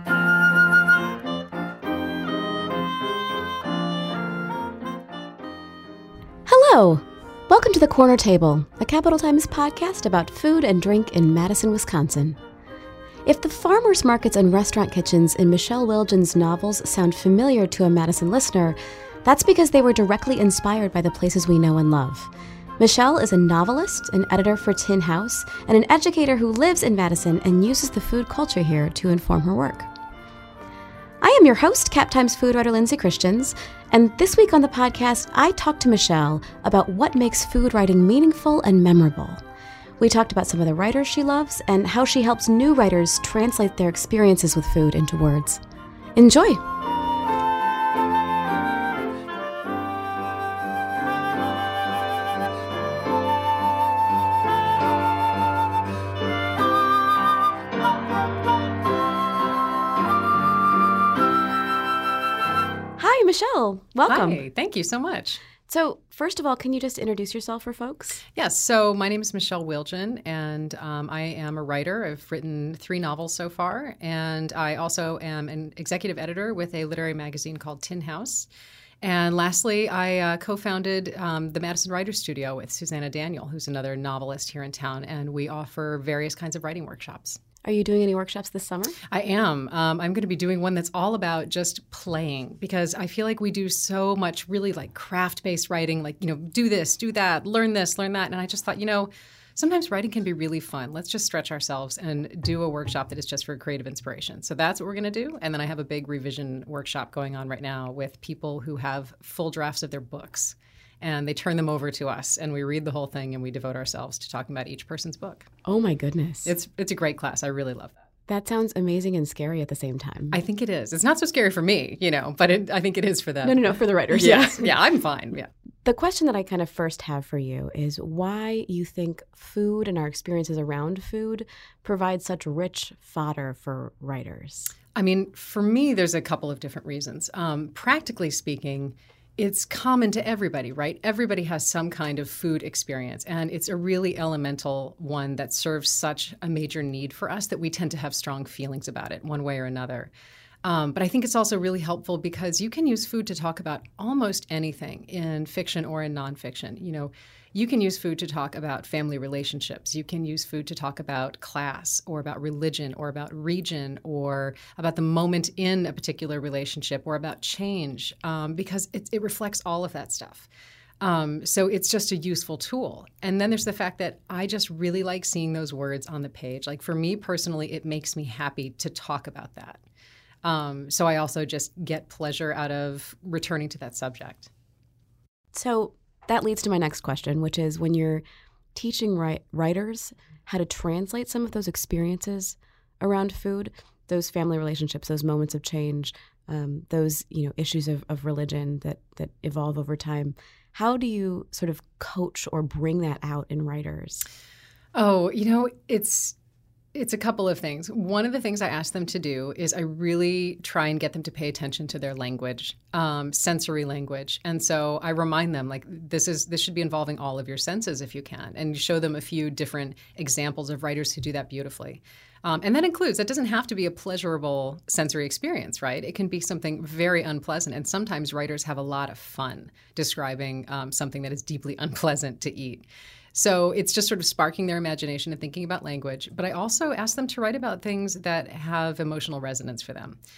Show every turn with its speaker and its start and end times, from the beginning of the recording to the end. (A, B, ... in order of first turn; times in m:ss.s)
0:06.5-0:12.4 A
0:13.3-0:29.9 A
0:31.2-0:39.4 A
0:40.0-0:45.6 A
0:46.2-0:46.6 A
1:03.0-1:04.4 A
1:04.1-1:05.4 B
1:05.7-1:08.2 A
1:08.4-1:18.5 B
1:19.0-1:27.4 B
1:27.6-1:29.0 A
1:29.1-1:55.5 B
1:55.6-1:56.5 A
1:56.4-1:58.0 B
1:58.3-2:00.4 A
2:00.3-2:05.5 B
2:03.4-2:04.7 A
2:05.8-2:14.7 A
2:15.0-2:30.1 B
2:30.6-2:50.5 B
2:51.0-2:59.8 B
3:00.4-3:04.5 B
3:05.5-3:08.2 A
3:08.8-3:24.2 A
3:24.9-3:26.4 B
3:26.9-4:00.2 B